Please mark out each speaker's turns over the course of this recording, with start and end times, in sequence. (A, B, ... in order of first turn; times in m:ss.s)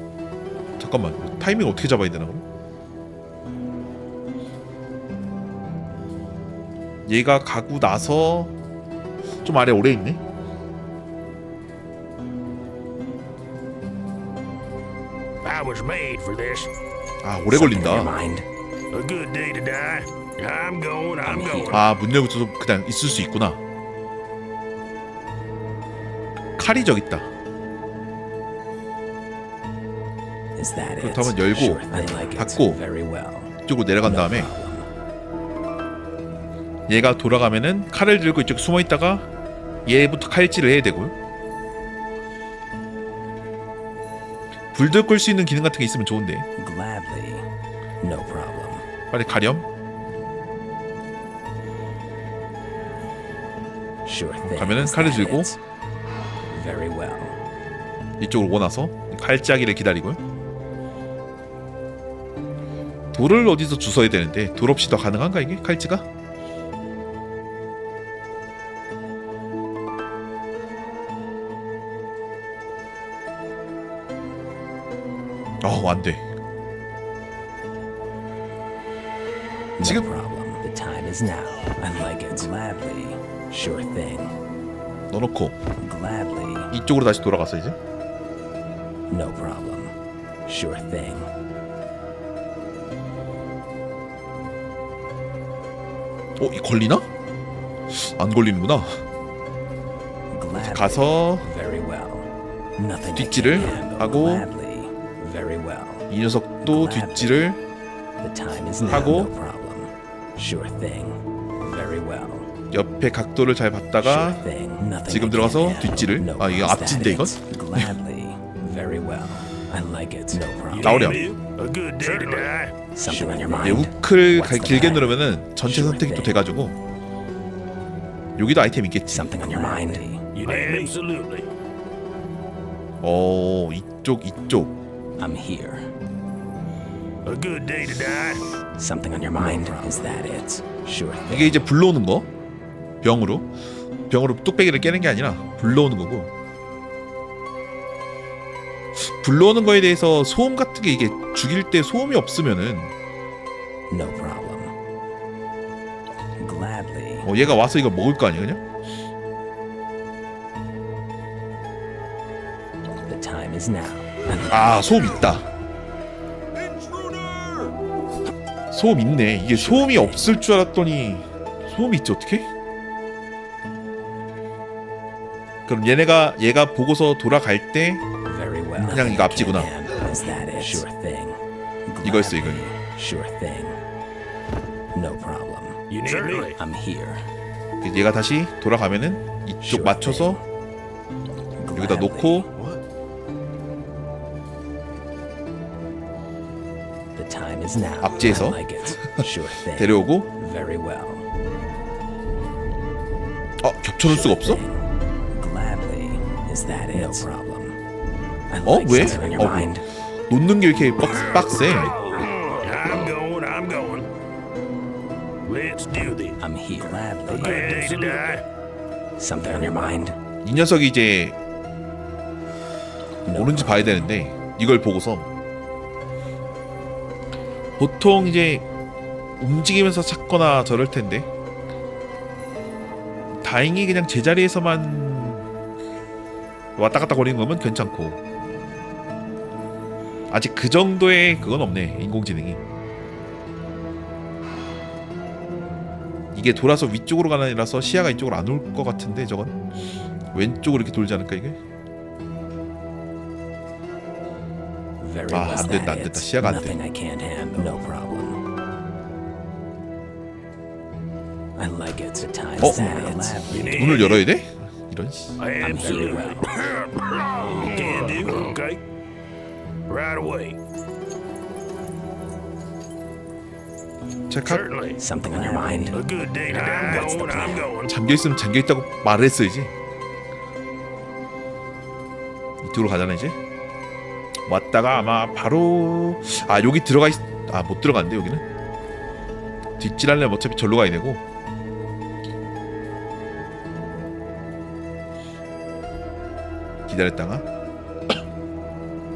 0:00.8-0:02.4 A
0:07.1-0:08.5 A
0:09.4-0:10.2 A
0:15.4-0:16.7 B
0:17.2-0:18.2 A
0:17.5-0:18.5 C
0:18.9-0:21.8 B
0:21.7-0:23.6 A
0:26.6-0:27.3 A
0:30.6-0:33.5 C
0:31.0-0:32.8 A
0:33.6-0:34.5 A
0:34.0-0:34.9 C
0:36.9-0:39.3 A
0:39.9-0:41.1 A
0:44.7-0:46.5 A
0:46.6-0:47.5 C
0:48.0-0:48.8 C
0:49.1-0:49.7 A
0:54.0-0:55.6 C
0:54.4-0:55.5 A
0:56.5-0:57.4 C
0:58.2-1:00.2 A
1:03.1-1:06.1 A
1:15.6-1:16.2 A
1:19.8-1:24.4 C
1:19.8-1:20.1 A
1:25.1-1:25.6 A
1:25.8-1:26.7 C
1:26.7-1:27.8 A
1:29.1-1:31.3 C
1:36.4-1:37.1 A
1:37.9-1:39.0 A
1:40.3-1:46.1 C
1:40.6-1:41.5 A
1:43.1-1:44.5 A
1:46.1-1:47.6 A
1:46.7-1:47.4 C
1:48.2-1:52.5 C
1:48.9-1:49.3 A
1:52.7-1:54.4 A
1:54.0-2:01.2 C
1:55.0-1:57.9 A
2:00.7-2:02.8 B
2:00.8-2:01.2 A
2:02.9-2:05.1 C
2:03.6-2:06.8 A
2:05.7-2:06.3 C
2:08.4-2:09.7 A
2:09.1-2:10.5 C
2:10.4-2:11.5 B
2:13.0-2:14.8 A
2:15.2-2:15.9 C
2:17.2-2:18.5 B
2:18.8-2:21.6 C
2:21.3-2:22.3 A
2:23.0-2:23.5 A
2:24.1-2:26.3 A
2:29.0-2:32.9 A
2:33.9-2:34.8 C
2:36.4-2:37.2 C
2:37.2-2:38.6 A
2:43.0-2:44.8 C
2:44.5-2:45.5 A
2:48.7-2:52.5 A
2:49.5-2:50.2 C
2:55.7-2:58.0 A
2:58.2-3:03.8 C
2:58.8-2:59.7 A
3:02.0-3:02.7 A
3:04.9-3:07.3 C
3:05.9-3:06.6 B
3:07.8-3:10.4 A
3:09.6-3:10.4 C
3:11.6-3:12.5 C
3:11.8-3:12.5 A
3:17.1-3:21.3 C
3:18.0-3:20.3 A
3:23.6-3:24.6 A
3:24.1-3:24.8 C
3:25.3-3:27.8 C
3:28.5-3:29.8 C
3:28.6-3:32.0 A
3:32.1-3:34.1 B
3:35.5-3:36.4 B
3:36.4-3:38.1 C
3:37.3-3:38.4 B
3:39.2-3:40.2 C
3:40.4-3:41.4 A
3:43.3-3:44.0 C
3:43.3-3:45.3 A
3:47.8-3:48.7 A
3:49.4-3:51.3 A
3:53.4-3:55.5 A
3:56.8-3:58.2 A
4:00.3-4:02.6 A
4:06.3-4:09.6 A
4:10.3-4:11.6 A
4:15.0-4:18.4 C
4:15.3-4:16.8 A
4:21.6-4:24.0 C
4:22.6-4:25.4 A
4:23.5-4:24.2 B
4:25.4-4:28.8 B
4:25.6-4:26.5 C
4:29.9-4:30.6 B
4:34.3-4:34.6 A
4:34.4-4:35.0 B
4:35.0-4:37.7 C
4:35.9-4:37.9 B
4:37.9-4:39.7 A
4:42.6-4:43.4 A
4:44.5-4:48.4 A
4:49.8-4:51.2 A
4:56.9-4:57.5 A